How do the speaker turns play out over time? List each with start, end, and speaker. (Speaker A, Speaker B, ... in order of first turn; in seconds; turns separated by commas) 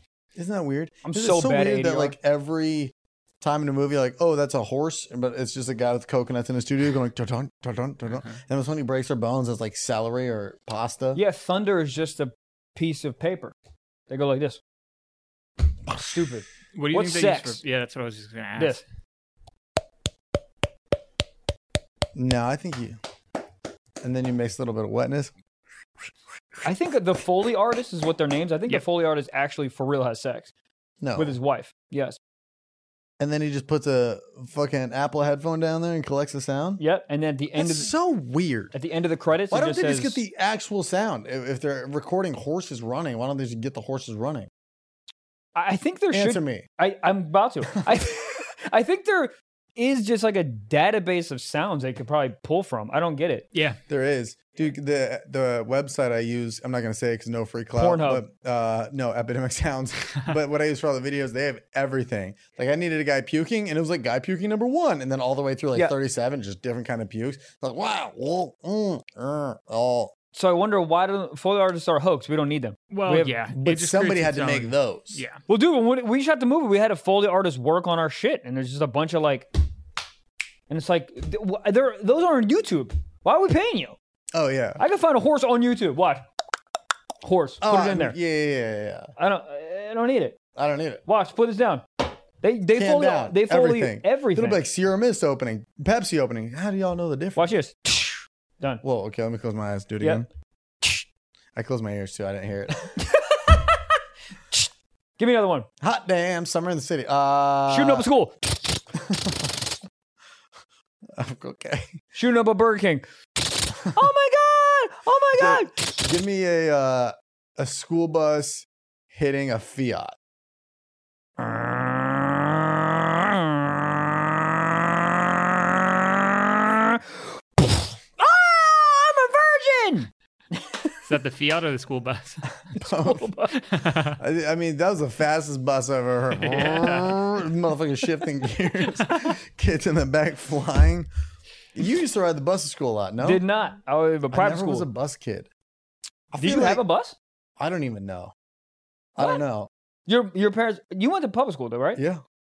Speaker A: 0.4-11.2, Speaker B: 1.1-2.2, Speaker B: 11.1-13.5, Speaker B: 14.1-14.6, Speaker B: 15.9-17.6, Speaker C: 16.8-18.8, Speaker B: 18.6-18.8, Speaker A: 22.2-23.0, Speaker A: 24.0-25.3, Speaker B: 26.6-30.5, Speaker A: 31.0-31.4, Speaker B: 31.2-32.2, Speaker A: 33.2-36.8, Speaker B: 36.8-37.9, Speaker A: 37.6-38.8, Speaker B: 38.7-40.2, Speaker A: 39.5-44.5, Speaker B: 45.6-53.5, Speaker A: 46.1-46.7, Speaker C: 53.5-53.8, Speaker A: 53.9-70.1, Speaker B: 57.8-58.2, Speaker B: 70.3-73.5, Speaker C: 72.9-75.5, Speaker A: 73.5-75.2, Speaker B: 75.4-79.5, Speaker B: 80.7-84.0, Speaker A: 84.3-84.8, Speaker B: 84.8-86.2, Speaker B: 87.2-88.2, Speaker A: 87.6-89.1, Speaker B: 89.2-90.4, Speaker A: 90.5-91.0, Speaker B: 91.1-91.8, Speaker B: 92.4-94.6, Speaker A: 92.7-97.5, Speaker B: 97.4-98.8, Speaker A: 98.8-100.3, Speaker A: 101.5-103.0, Speaker B: 103.0-104.0, Speaker B: 104.5-105.7, Speaker A: 105.8-108.1, Speaker B: 107.7-108.8, Speaker A: 109.0-109.5, Speaker A: 111.2-112.0, Speaker B: 112.1-116.0, Speaker A: 115.3-120.2, Speaker B: 121.4-131.0, Speaker C: 131.1-132.5, Speaker B: 132.8-133.5, Speaker A: 132.8-133.4, Speaker C: 133.5-134.2, Speaker A: 134.2-141.1, Speaker B: 136.4-137.1, Speaker A: 141.8-143.4, Speaker B: 143.2-144.9, Speaker A: 144.3-145.5, Speaker A: 146.3-146.8, Speaker B: 146.4-147.2, Speaker A: 147.6-148.3, Speaker A: 149.2-149.7, Speaker B: 150.1-152.0